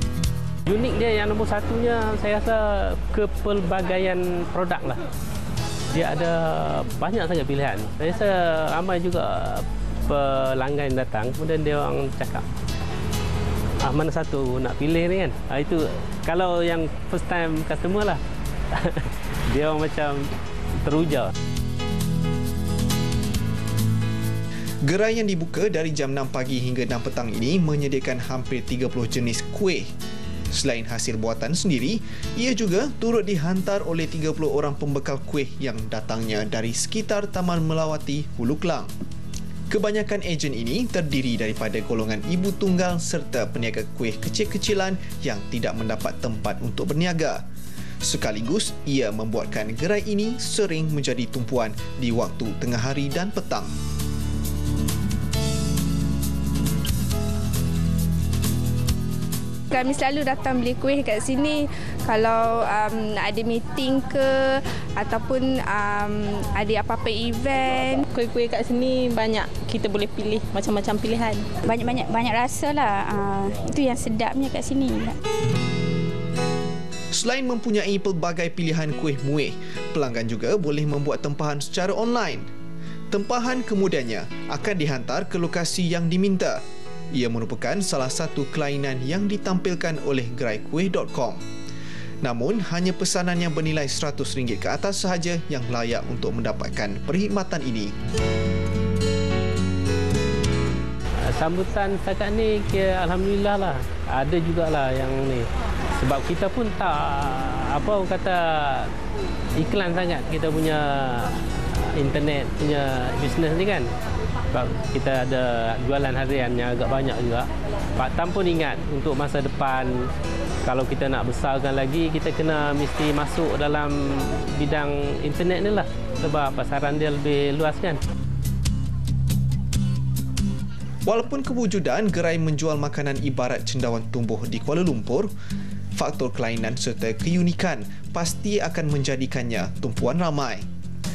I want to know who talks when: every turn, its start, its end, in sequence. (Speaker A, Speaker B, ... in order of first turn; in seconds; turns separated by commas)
Speaker A: 0.7-5.0, Speaker A: 5.9-12.5, Speaker A: 13.8-18.2, Speaker A: 18.7-21.3, Speaker B: 24.8-29.9, Speaker B: 30.5-38.9, Speaker B: 39.7-47.4, Speaker B: 48.0-53.7, Speaker C: 59.7-68.1, Speaker D: 68.1-71.5, Speaker E: 71.6-75.2, Speaker B: 77.1-82.5, Speaker B: 83.1-91.4, Speaker B: 92.2-97.9, Speaker A: 101.2-108.9, Speaker A: 109.5-113.9, Speaker A: 114.5-120.1, Speaker A: 120.6-128.0, Speaker B: 131.1-135.3, Speaker B: 135.9-140.7